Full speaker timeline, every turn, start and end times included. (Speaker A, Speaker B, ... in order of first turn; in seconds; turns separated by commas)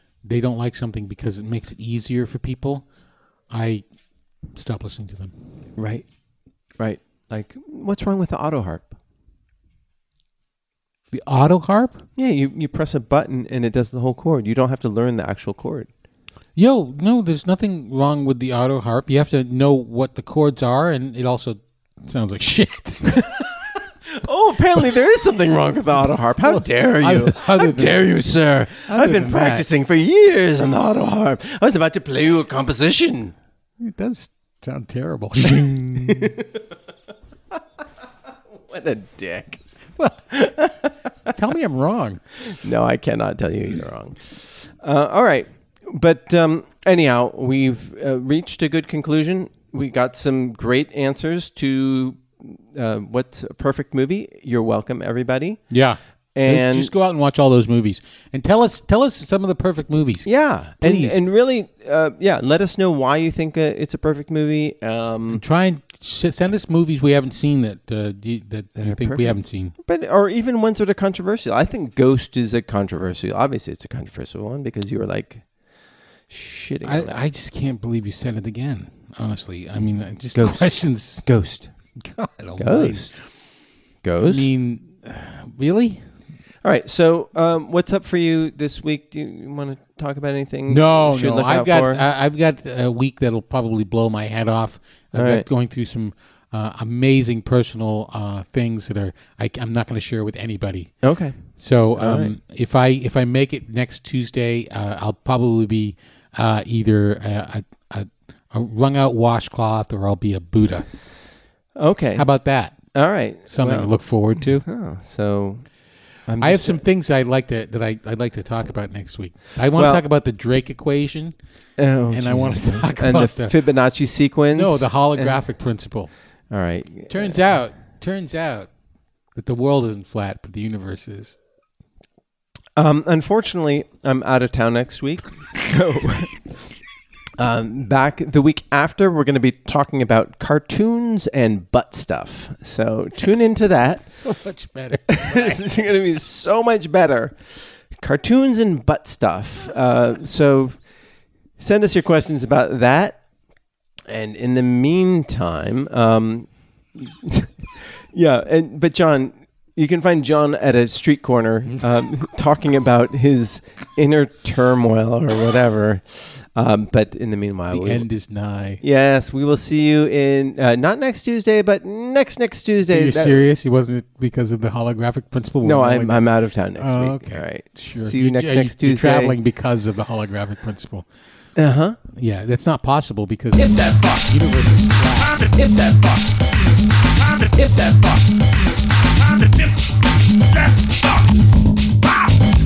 Speaker A: 0.2-2.9, Speaker A: 3.5-3.9, Speaker A: 4.5-5.3, Speaker B: 5.8-6.1, Speaker B: 6.8-8.9, Speaker A: 11.1-12.1, Speaker B: 12.2-15.9, Speaker A: 16.6-23.5, Speaker B: 24.1-33.3, Speaker A: 26.4-28.0, Speaker A: 28.9-29.7, Speaker A: 33.8-36.3, Speaker B: 36.0-36.6, Speaker B: 38.5-39.6, Speaker B: 40.2-41.3, Speaker A: 41.3-42.2, Speaker B: 42.4-55.6, Speaker A: 55.7-61.2, Speaker B: 56.4-56.9, Speaker B: 60.2-65.4, Speaker A: 65.3-69.8, Speaker B: 68.8-75.5, Speaker B: 76.3-77.2, Speaker A: 76.8-81.2, Speaker B: 80.3-81.7, Speaker A: 82.0-83.1, Speaker B: 82.6-83.1, Speaker B: 84.0-84.5, Speaker A: 84.2-86.1, Speaker B: 86.6-92.0, Speaker A: 90.7-110.9, Speaker B: 95.1-95.5, Speaker B: 101.0-101.4, Speaker B: 102.0-102.3, Speaker B: 111.8-112.3, Speaker A: 112.2-112.9, Speaker B: 112.9-115.7, Speaker A: 113.5-114.7, Speaker B: 116.3-116.8, Speaker A: 116.4-121.3, Speaker B: 119.8-120.0, Speaker B: 121.8-125.4, Speaker A: 122.1-123.5, Speaker A: 124.5-126.1, Speaker B: 126.5-127.4, Speaker A: 127.1-128.7, Speaker A: 129.3-131.4, Speaker B: 132.8-136.5, Speaker B: 137.4-144.1, Speaker A: 144.0-145.7, Speaker B: 145.1-147.4, Speaker B: 147.9-150.8, Speaker B: 151.6-153.2, Speaker B: 154.1-168.1, Speaker A: 167.7-168.8, Speaker B: 168.8-173.4, Speaker A: 172.9-181.1, Speaker B: 175.6-179.4, Speaker B: 181.6-182.0, Speaker A: 182.1-183.6, Speaker C: 183.6-184.5, Speaker A: 184.3-185.4, Speaker C: 185.1-191.4